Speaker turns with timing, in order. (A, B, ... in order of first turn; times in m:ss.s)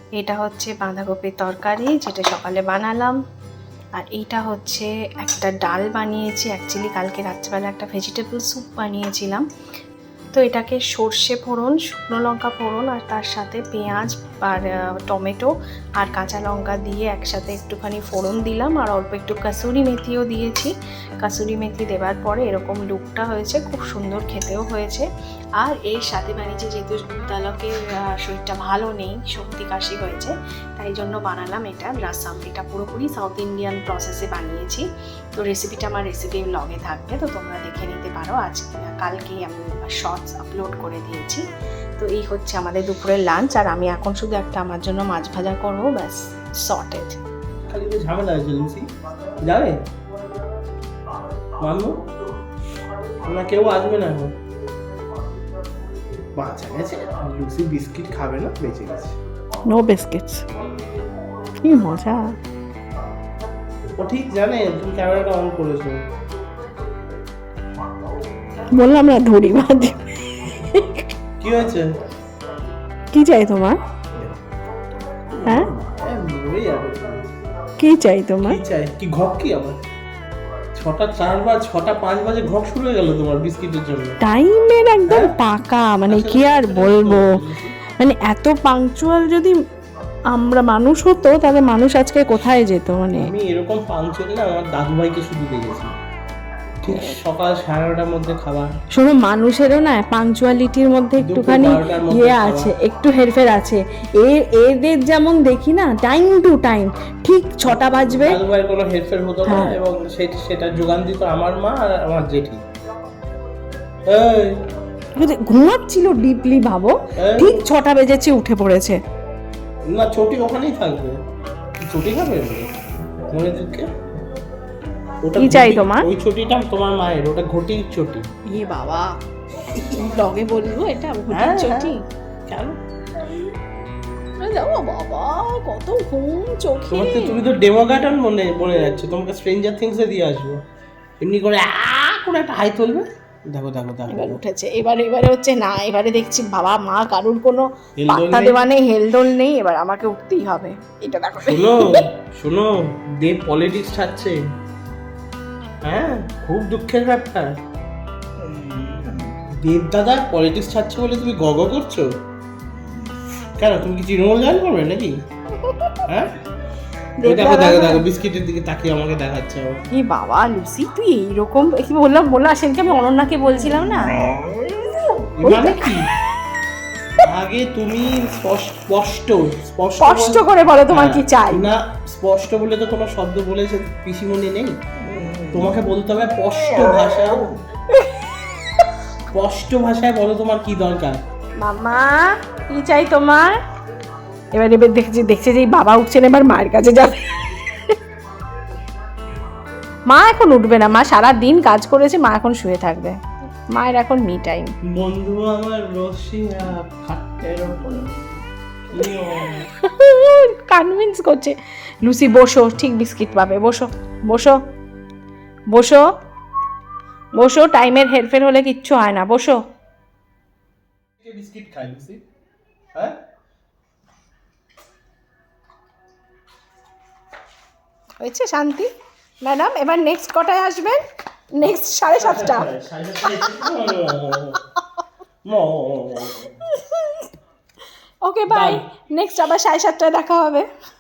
0:00.2-0:03.2 A
0:04.0-0:09.4 A
0:10.3-0:25.1 A
0:25.6-0:41.4 A
0:42.0-0:47.2 A
0:47.7-0:48.9 B
0:49.4-0:49.8 B
0:51.6-0:52.0 B
0:53.2-0:54.4 B
0:56.4-0:59.2 B
0:59.7-1:00.4 A
1:01.6-1:02.4 A
1:04.0-1:06.0 B
1:08.7-1:11.0 A
1:11.4-1:11.9 B
1:13.1-1:13.8 A
1:15.4-1:17.3 B
1:17.8-1:18.6 A
1:18.4-1:19.8 B
1:20.8-1:24.2 B
1:24.2-1:29.6 A
1:25.1-1:25.4 B
1:26.1-1:27.8 B
1:30.3-1:33.3 A
1:33.1-1:35.9 B
1:36.8-1:38.7 B
1:36.9-1:37.2 A
1:38.9-1:48.4 A
1:41.2-1:42.7 B
1:47.7-1:52.6 B
1:49.5-1:49.7 A
1:54.1-1:54.6 B
1:55.2-1:59.0 A
1:57.2-1:57.6 B
1:59.9-2:01.2 B
2:01.8-2:03.9 B
2:05.2-2:08.2 B
2:05.4-2:06.1 A
2:08.5-2:12.0 A
2:11.3-2:11.9 B
2:12.5-2:12.8 B
2:14.4-2:17.4 A
2:16.9-2:20.6 B
2:21.2-2:24.4 B
2:24.1-2:32.0 A
2:28.0-2:28.7 B
2:31.4-2:34.4 B
2:35.8-2:37.6 B
2:39.5-2:42.1 B
2:43.6-2:45.2 B
2:45.6-2:46.0 A
2:46.1-2:46.4 B
2:47.2-2:48.0 A
2:47.2-2:49.8 B
2:49.9-2:56.1 A
2:55.4-2:56.1 B
2:57.2-3:04.8 B
3:00.0-3:01.7 A
3:05.5-3:07.5 B
3:07.9-3:08.3 A
3:09.3-3:11.2 B
3:11.6-3:13.5 A
3:14.5-3:17.7 A
3:20.1-3:23.2 A
3:23.7-3:24.7 A
3:24.9-3:28.3 B
3:28.9-3:29.7 B
3:29.4-3:34.6 A
3:35.7-3:36.1 A
3:37.4-3:39.6 A
3:41.2-3:42.2 B
3:48.2-3:48.9 A
3:49.4-3:52.7 A
3:51.6-3:54.6 B
3:55.4-3:56.5 B
3:56.6-3:57.3 A
3:58.2-4:00.7 A
3:58.5-3:58.8 B